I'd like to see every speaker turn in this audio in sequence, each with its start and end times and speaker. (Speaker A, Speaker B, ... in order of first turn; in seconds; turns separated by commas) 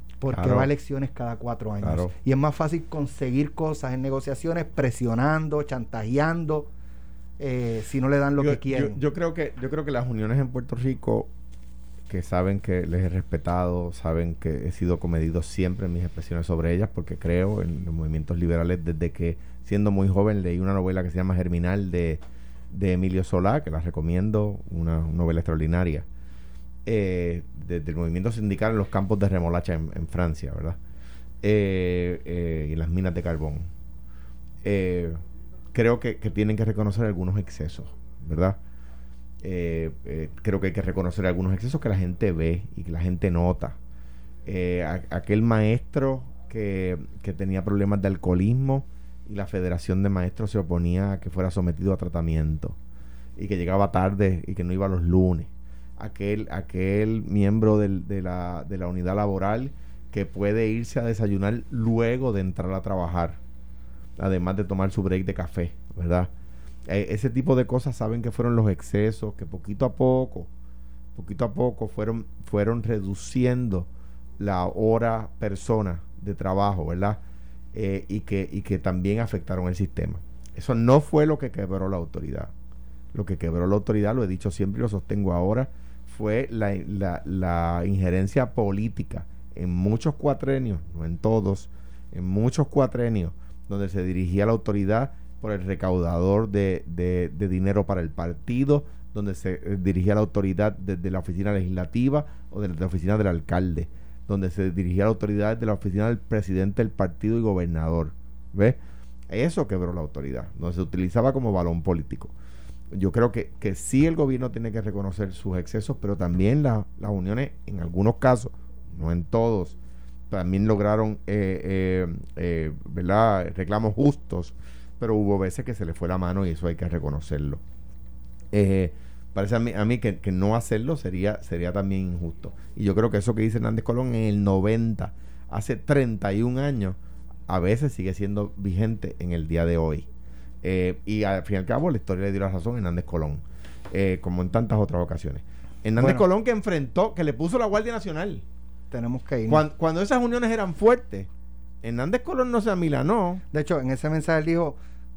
Speaker A: 0.2-6.7, Speaker B: 0.3-0.7, Speaker B: 1.8-2.1, Speaker A: 7.4-9.0, Speaker B: 8.4-11.3, Speaker B: 12.1-26.1, Speaker B: 26.9-30.8, Speaker B: 31.4-33.7, Speaker B: 34.6-35.2, Speaker B: 35.7-38.6, Speaker B: 39.4-43.8, Speaker B: 44.4-52.8, Speaker B: 53.4-63.4, Speaker B: 64.2-66.3, Speaker B: 66.9-70.5, Speaker B: 71.1-77.2, Speaker B: 77.7-82.5, Speaker B: 83.1-108.8, Speaker B: 109.3-112.3, Speaker B: 112.9-119.8, Speaker B: 120.3-127.6, Speaker B: 128.5-137.0, Speaker B: 137.5-140.1, Speaker B: 140.6-148.4, Speaker A: 146.0-146.2, Speaker A: 148.9-149.6, Speaker B: 149.5-151.3, Speaker B: 151.8-153.4, Speaker A: 153.5-154.8